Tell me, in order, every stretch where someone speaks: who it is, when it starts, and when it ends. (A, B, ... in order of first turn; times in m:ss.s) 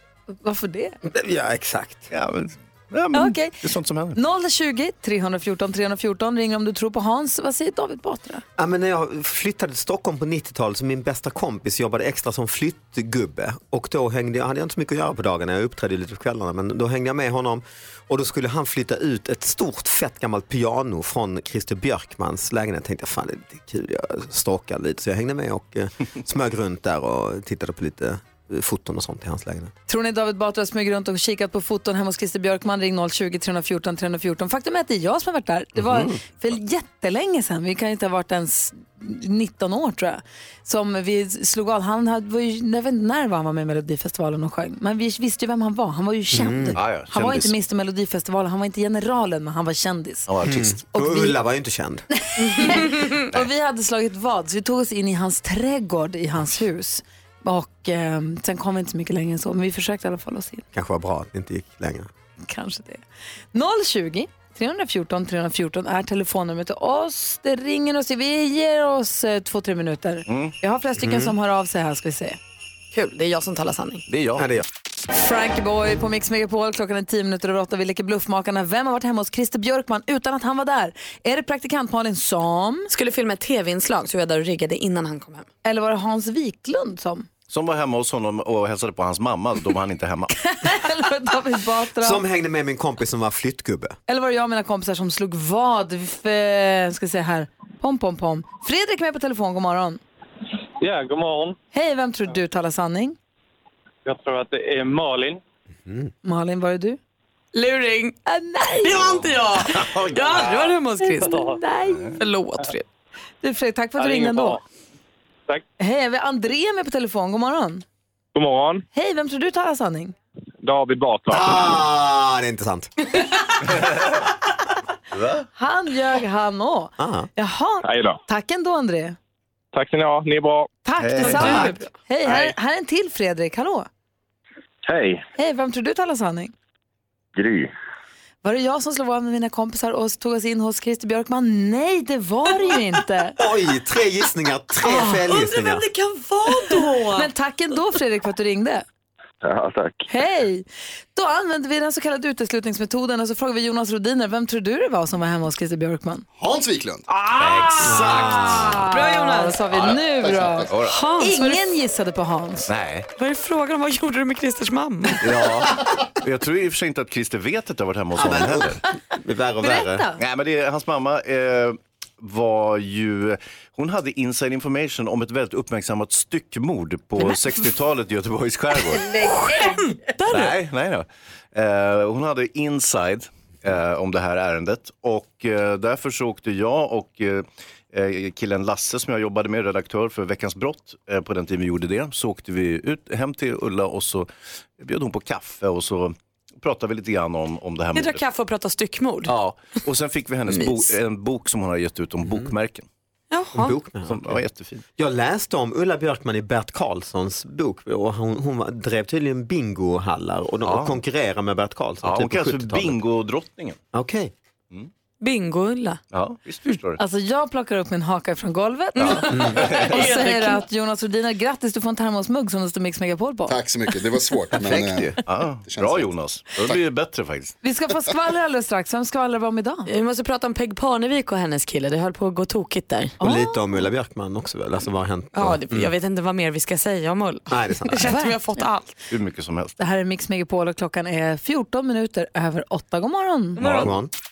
0:00.4-0:01.0 A
0:01.1-0:02.0 B
0:02.1-0:04.2 C
0:03.1-0:03.6 A
0:04.2-0:08.4 A
0:08.6-0:29.7 B
0:29.9-0:50.3 A
0:35.8-0:36.1 B
0:46.3-0:46.8 B
0:46.8-0:47.5 C
0:50.3-0:50.8 C
0:50.4-0:52.0 B
0:50.9-0:51.4 A
0:52.2-1:00.6 A
0:52.4-0:53.1 D
1:00.7-1:02.1 B
1:02.5-1:03.0 A
1:03.5-1:12.4 A
1:10.3-1:10.5 C
1:11.0-1:11.3 B
1:12.9-1:14.1 D
1:14.1-1:14.5 C
1:14.4-1:14.6 B
1:15.1-1:22.9 A
1:22.9-1:25.5 D
1:25.6-1:27.3 A
1:27.5-1:30.4 C
1:30.4-1:32.2 A
1:32.0-1:34.0 B
1:34.1-1:40.0 A
1:40.8-1:41.6 E
1:41.7-1:43.2 A
1:44.0-1:45.4 E
1:45.9-1:46.1 B
1:46.2-1:47.0 A
1:47.5-1:48.2 D
1:48.3-1:49.0 A
1:48.8-1:51.5 D
1:49.8-1:50.5 C
1:51.0-1:52.2 A
1:52.2-1:52.9 D
1:53.4-1:54.6 A
1:54.0-1:54.6 E
1:55.8-1:57.8 A
1:58.4-1:58.8 E
1:58.9-2:00.1 A
2:00.6-2:01.7 E
2:01.3-2:02.9 B
2:05.1-2:05.4 C
2:05.6-2:09.2 A
2:07.0-2:07.3 B
2:07.8-2:08.2 E
2:09.7-2:10.7 E
2:10.8-2:13.9 A
2:11.0-2:11.7 C
2:11.2-2:11.9 D
2:14.9-2:15.2 E
2:15.4-2:16.5 A
2:18.4-2:23.4 A
2:23.4-2:25.8 B
2:24.8-2:27.3 D
2:26.5-2:28.8 A
2:30.1-2:36.2 A
2:36.4-2:37.0 F
2:37.4-2:38.7 C
2:37.7-2:42.7 A
2:37.9-2:38.5 B
2:37.9-2:38.3 D
2:38.8-2:39.6 D
2:40.6-2:41.0 C
2:40.8-2:41.6 D
2:42.7-2:43.1 C
2:43.2-2:45.2 D
2:45.2-2:48.8 C
2:48.2-2:50.1 B
2:49.6-2:50.2 A
2:50.2-2:59.2 C
2:59.5-3:00.6 D
3:00.3-3:18.2 C
3:18.0-3:19.3 D
3:19.3-3:22.9 C
3:20.5-3:20.8 D
3:23.3-3:23.8 D
3:23.5-3:24.4 B
3:24.1-3:24.8 C
3:25.0-3:33.0 B
3:30.6-3:31.0 C
3:32.0-3:33.8 C
3:33.9-3:34.3 B
3:35.2-3:36.0 D
3:36.1-3:37.0 C
3:37.0-3:43.6 A
3:39.0-3:40.6 D
3:39.0-3:40.0 C
3:43.5-3:46.8 F
3:44.6-3:47.6 C
3:47.6-3:49.9 A
3:49.9-3:53.2 D
3:53.2-3:53.6 A
3:53.2-3:55.9 B
3:55.3-3:58.9 D
3:57.5-3:57.9 B
3:58.0-3:58.4 A
3:59.1-3:59.8 C
3:59.8-4:03.6 A
4:03.6-4:03.9 D
4:03.6-4:03.9 C
4:03.8-4:04.1 B